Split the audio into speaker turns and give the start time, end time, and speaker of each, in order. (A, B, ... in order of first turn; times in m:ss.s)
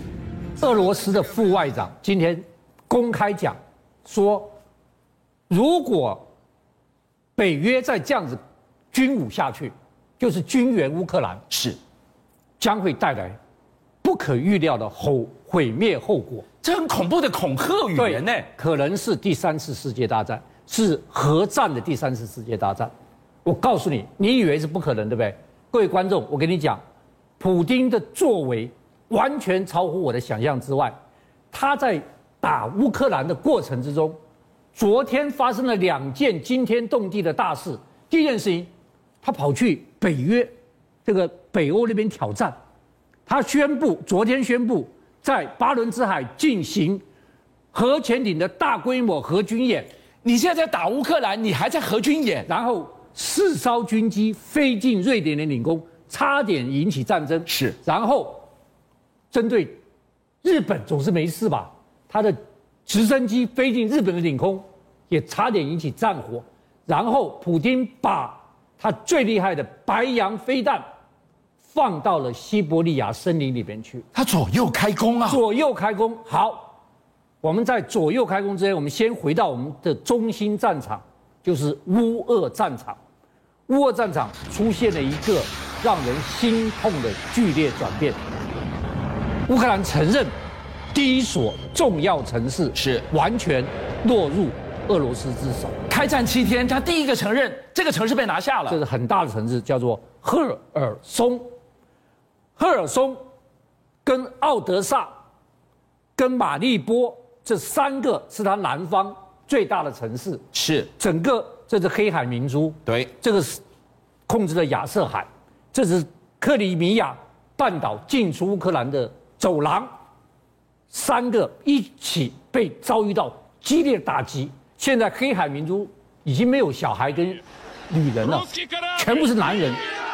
0:00.6-0:04.5 A
0:05.5-0:06.3 A
0:07.4-0:08.4 A
0:08.9-0:11.4 A
0:11.5-0:11.8 B
0:12.6-0:13.4 A
0:14.0-0:16.5 A
0:16.6-0:18.5 B
0:18.0-0:22.9 A
0:23.4-0:26.8 A
0:27.4-0:31.0 A
0:31.5-0:34.2 A
0:34.8-0:38.7 A
0:39.2-0:40.5 A
0:41.0-0:42.6 A
0:43.3-0:47.0 A
0:47.7-0:49.9 A
0:50.2-0:52.5 B
0:52.5-0:58.5 A
0:57.5-0:57.8 B
0:59.3-0:59.8 A
1:00.4-1:10.8 A
1:11.7-1:14.1 A
1:14.1-1:15.4 B
1:15.3-1:16.8 A
1:17.4-1:23.0 A
1:23.7-1:28.2 A
1:29.5-1:30.3 A
1:30.9-1:35.8 A
1:32.8-1:33.1 B
1:35.9-1:38.8 B
1:38.7-1:41.5 A
1:42.6-1:43.2 A
1:44.0-1:45.1 A
1:46.2-1:50.4 A
1:50.5-1:50.9 B
1:51.0-1:53.6 A
1:52.9-1:53.1 B
1:54.3-1:59.9 A
2:00.9-2:09.8 A